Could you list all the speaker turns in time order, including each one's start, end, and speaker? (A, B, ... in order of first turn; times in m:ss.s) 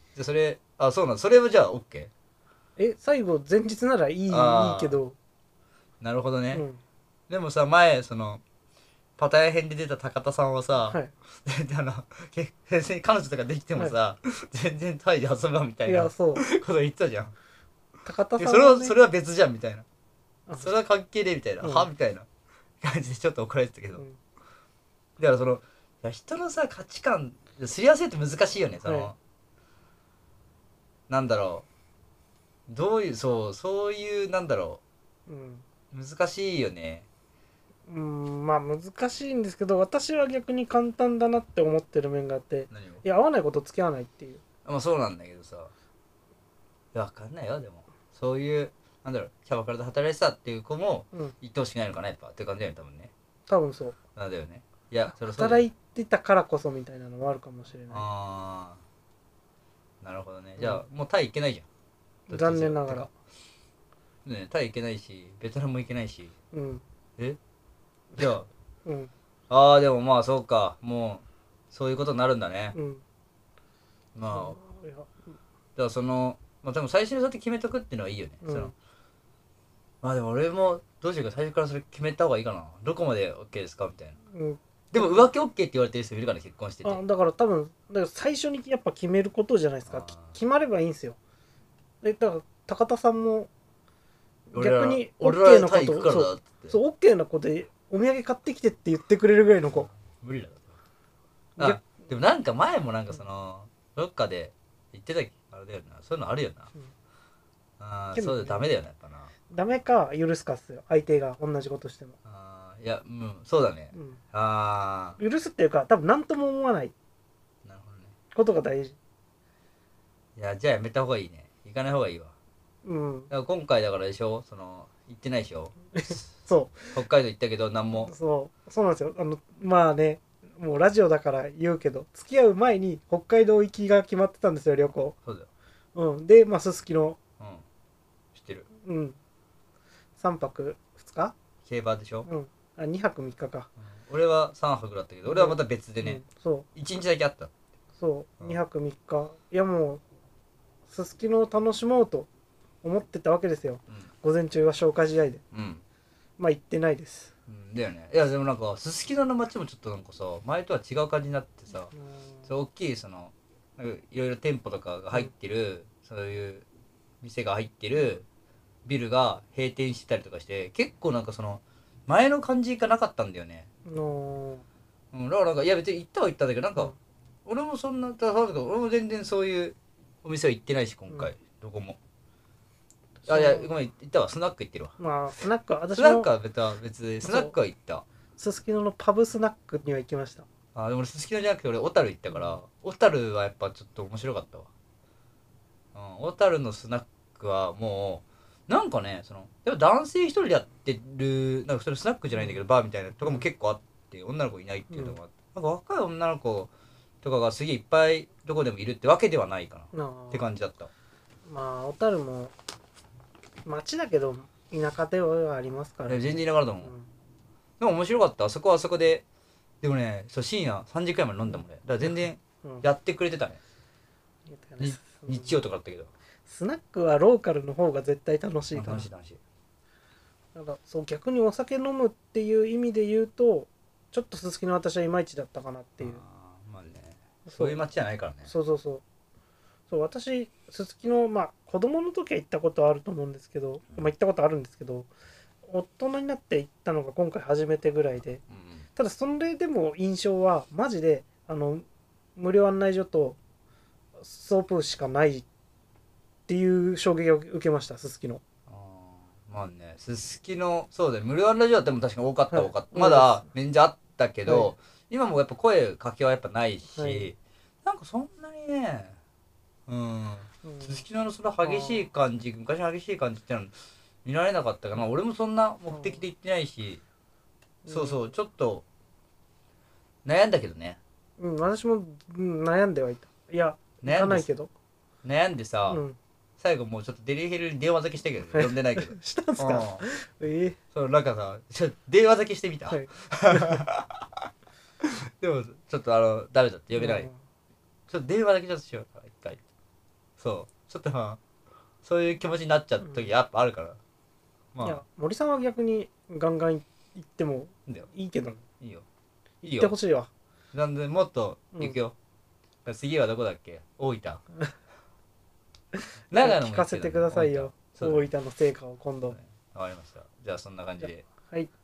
0:00.1-0:02.1 A
0:02.8-0:05.2 B
0:04.3-0:05.0 A
0:06.0-0:06.6 A
0:06.5-0:06.8 B
0:07.3-0:08.4 A
0:09.2-0:17.3 A
0:15.8-0:16.4 B
0:18.0-0:19.0 B
0:18.4-0:19.8 A
0:20.5-0:20.7 B
0:20.6-0:22.3 A
0:21.6-0:21.9 B
0:22.8-0:24.0 A
0:25.2-0:29.2 A
0:28.8-0:29.1 B
0:31.1-0:31.7 A
0:32.7-0:34.8 A
0:35.3-0:35.6 B
0:35.9-0:37.1 A
0:37.9-0:44.4 B
0:42.7-0:43.0 A
0:44.6-0:45.7 A
0:46.9-0:53.1 A
0:53.5-0:54.0 B
0:54.2-0:55.6 A
0:55.2-0:58.0 B
0:57.9-0:58.8 A
1:00.0-1:01.7 A
1:00.6-1:00.8 B
1:02.3-1:03.1 A
1:02.3-1:03.1 B
1:04.2-1:06.3 A
1:06.5-1:06.8 B
1:08.2-1:08.5 A
1:08.8-1:09.1 B
1:09.5-1:12.8 A
1:12.7-1:13.0 B
1:14.1-1:14.6 A
1:14.3-1:15.1 B
1:15.8-1:18.7 A
1:18.4-1:18.7 B
1:20.0-1:24.2 A
1:24.3-1:25.3 B
1:24.9-1:27.0 A
1:26.8-1:31.2 B
1:29.9-1:30.3 A
1:32.0-1:33.5 B
1:34.5-1:39.9 B
1:34.5-1:36.8 A
1:39.7-1:40.8 A
1:41.6-1:42.0 B
1:41.6-1:46.7 A
1:47.8-1:49.3 A
1:48.1-1:48.7 B
1:49.5-1:52.2 B
1:52.2-1:55.2 A
1:53.9-1:54.2 B
1:55.2-1:56.9 B
1:57.6-1:58.1 A
1:58.3-1:59.0 B
2:00.4-2:02.3 A
2:02.8-2:03.3 B
2:03.3-2:06.3 A
2:06.0-2:07.0 B
2:06.9-2:08.1 A
2:08.0-2:15.2 B
2:15.2-2:15.5 A
2:15.9-2:17.2 B
2:17.4-2:17.6 A
2:18.3-2:18.7 A
2:18.8-2:19.2 B
2:20.2-2:21.3 B
2:21.6-2:22.3 A
2:22.2-2:23.7 B
2:23.8-2:26.2 A
2:25.2-2:26.7 B
2:26.7-2:27.5 A
2:28.0-2:30.0 B
2:30.9-2:32.3 B
2:32.8-2:35.4 B
2:35.5-2:35.8 A
2:36.4-2:37.3 B
2:37.5-2:41.9 A
2:41.9-2:42.5 B
2:42.4-2:46.6 A
2:47.2-2:48.2 A
2:48.8-2:53.7 A
2:53.8-2:54.6 B
2:55.1-2:56.9 A
2:57.4-3:02.0 A
3:03.2-3:03.7 B
3:03.3-3:05.0 A
3:05.0-3:06.3 B
3:06.0-3:08.0 A
3:07.2-3:07.5 B
3:08.4-3:10.4 B
3:10.7-3:14.7 A
3:12.3-3:12.6 B
3:15.9-3:26.7 A
3:27.2-3:30.9 A
3:29.9-3:30.5 B
3:31.4-3:32.5 B
3:33.6-3:37.1 B
3:36.1-3:36.9 A
3:37.8-3:39.2 A
3:39.8-3:43.6 A
3:44.5-3:45.6 B
3:44.8-3:46.1 A
3:46.5-3:49.1 B
3:48.7-3:49.4 A
3:50.5-3:56.2 B
3:56.0-3:58.5 A
3:57.4-3:57.8 B
3:58.4-3:59.0 B
3:59.9-4:05.1 B
4:05.6-4:08.4 B
4:08.5-4:08.9 A
4:09.0-4:13.4 B
4:14.2-4:15.4 B
4:16.5-4:18.4 B
4:18.7-4:29.2 A
4:22.5-4:23.4 B
4:24.4-4:24.7 B
4:26.9-4:27.3 B
4:29.9-4:37.0 A
4:30.6-4:31.0 B
4:31.6-4:32.1 B
4:35.9-4:36.2 B
4:37.8-4:38.3 B
4:37.9-4:38.8 A
4:40.2-4:41.0 A
4:41.4-4:44.7 B
4:44.0-4:44.5 A
4:45.2-4:46.0 A
4:45.9-4:46.2 B
4:46.6-4:50.0 A
4:48.5-4:50.8 B
4:50.9-4:54.2 A
4:52.9-4:53.8 B
4:55.0-4:57.3 A
4:56.9-4:57.4 B
4:58.1-4:59.6 A
5:00.4-5:01.4 A
5:02.0-5:04.0 A
5:04.7-5:05.0 A
5:04.8-5:08.6 B
5:08.8-5:09.0 A
5:09.6-5:09.9 A
5:09.6-5:10.3 B
5:10.7-5:12.1 A
5:12.8-5:14.4 A
5:16.3-5:18.3 A
5:16.3-5:19.4 B
5:19.3-5:21.2 A
5:21.0-5:21.7 B